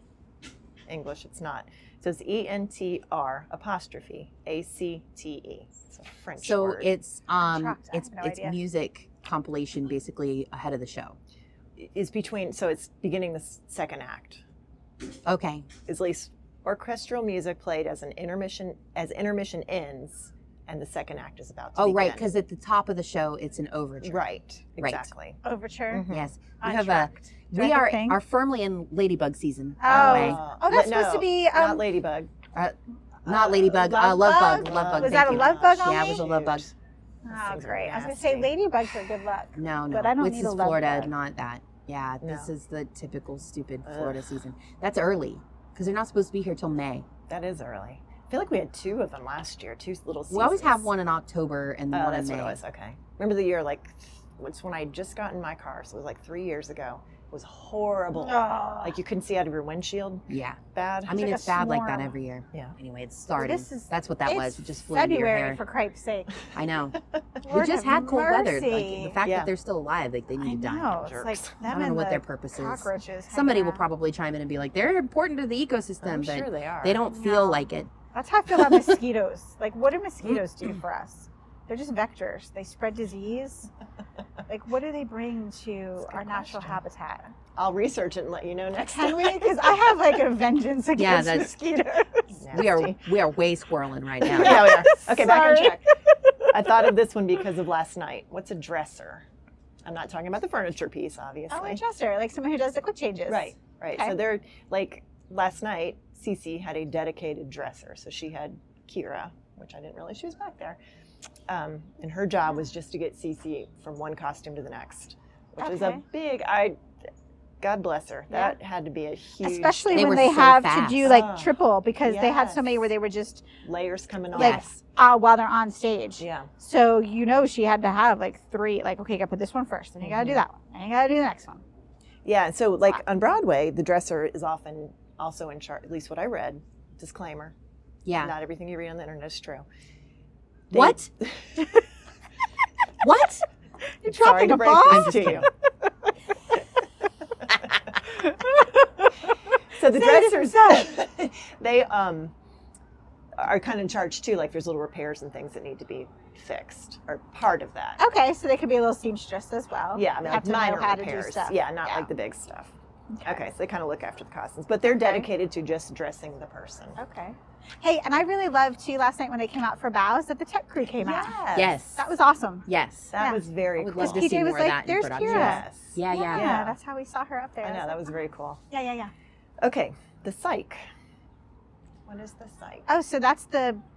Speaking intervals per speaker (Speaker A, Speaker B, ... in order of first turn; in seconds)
Speaker A: 0.9-6.9, 11.8-14.4, 15.8-22.3, 24.0-25.4, 25.9-26.3, 29.9-32.3, 33.2-36.7, 37.3-38.5, 42.2-42.5, 43.8-44.2, 47.3-50.9, 51.9-61.3, 69.2-69.5, 70.9-71.6, 76.0-77.0, 86.0-86.8, 87.5-89.8, 92.3-93.0, 94.2-95.9, 96.5-99.2, 99.8-101.8, 103.3-110.8, 111.5-116.8, 117.6-120.3, 121.0-122.9, 123.6-124.8, 126.2-126.5, 130.0-130.4, 132.2-137.5, 138.2-139.7, 140.7-141.7, 144.0-145.4, 149.7-152.3, 153.4-158.0, 159.9-162.7, 163.2-167.0, 171.0-171.8, 173.1-174.3, 175.2-176.8, 177.6-178.6, 179.6-180.8, 182.1-182.9
Speaker B: 6.4-11.2, 15.2-15.7, 21.8-24.2, 24.8-25.1, 26.1-30.4, 32.5-36.7, 39.5-47.0, 50.3-52.6, 60.3-65.6, 66.5-71.0, 71.7-77.9, 91.0-91.5, 92.5-94.7, 119.9-121.0, 124.3-124.6, 138.1-138.3, 140.7-141.1, 143.0-143.4, 144.9-145.5, 171.5-172.0, 172.7-173.1, 173.8-176.6
Speaker C: 7.4-8.6, 25.4-26.1, 26.6-28.2, 29.8-31.8, 33.9-36.2, 37.2-41.1, 58.1-59.0, 61.1-62.1, 63.4-66.4, 67.4-69.2, 70.4-73.8, 77.1-83.7, 84.5-87.3, 88.8-92.4, 94.3-96.8, 101.5-104.1, 115.6-116.0, 118.3-118.5, 119.4-123.5, 124.3-131.6, 144.0-145.5, 148.1-150.9, 158.0-162.1, 163.1-163.4, 164.9-165.3, 167.0-173.4, 173.9-178.0, 178.7-179.1, 182.9-183.8